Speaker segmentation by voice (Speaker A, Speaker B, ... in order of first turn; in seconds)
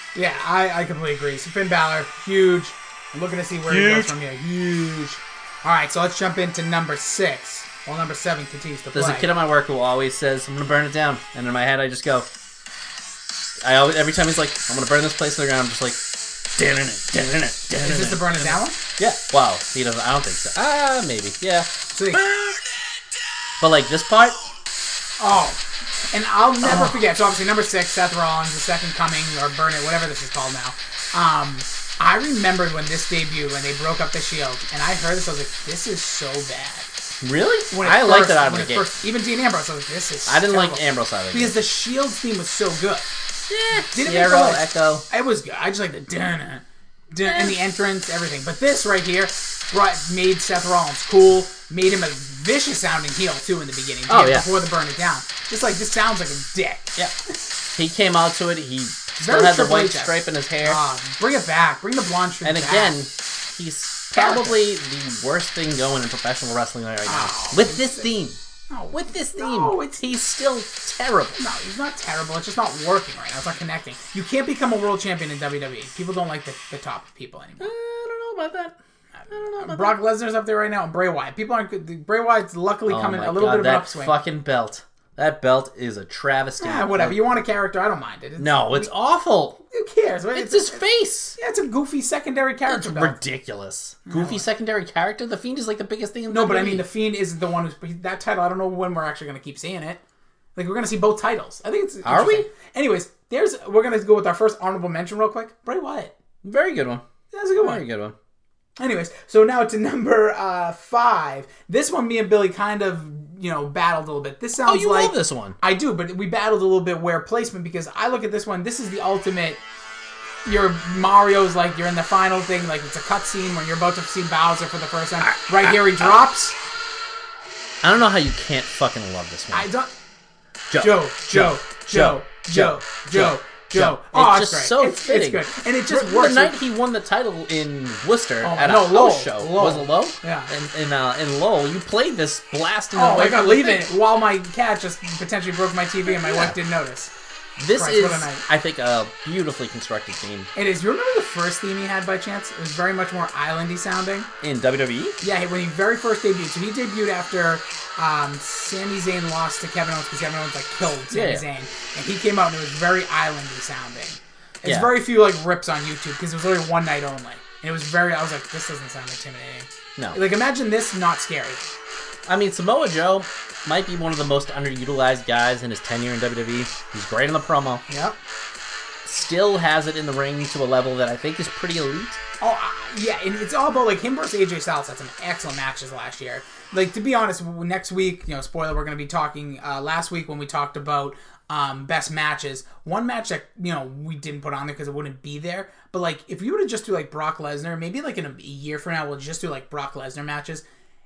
Speaker A: 0.1-9.3, 17.8-18.8, 21.9-22.2, 25.2-36.9, 37.7-43.1, 43.8-57.0, 59.2-63.0, 64.2-64.6, 67.1-68.1, 68.7-70.1, 71.4-77.7, 79.2-84.1, 86.6-88.9, 89.7-90.8, 91.4-93.2, 94.1-94.4, 96.3-100.0, 100.6-106.2, 107.3-107.8, 108.8-119.6, 120.5-126.6, 129.5-129.9, 130.8-136.6, 138.4-140.5, 142.9-147.1, 147.8-148.4, 150.6-154.3, 155.2-171.6, 177.9-178.2, 182.4-200.6
Speaker B: 3.7-4.2, 8.9-12.3, 13.6-16.0, 16.6-22.8, 23.6-24.4, 26.6-27.0, 37.2-38.9, 40.3-41.6, 43.5-45.0, 47.2-47.6, 54.1-54.5, 57.7-60.8, 62.4-68.4, 68.9-71.4, 77.6-78.8, 79.3-80.0, 82.9-87.2, 88.4-89.6, 90.3-91.4, 92.7-96.8, 102.0-102.5, 106.4-107.0, 107.6-108.2, 114.6-115.6, 125.2-126.2, 127.8-129.7, 130.7-143.9, 146.1-146.6, 147.6-150.5, 154.4-155.2, 161.1-161.4, 164.6-164.9, 172.3-177.8, 179.1-182.2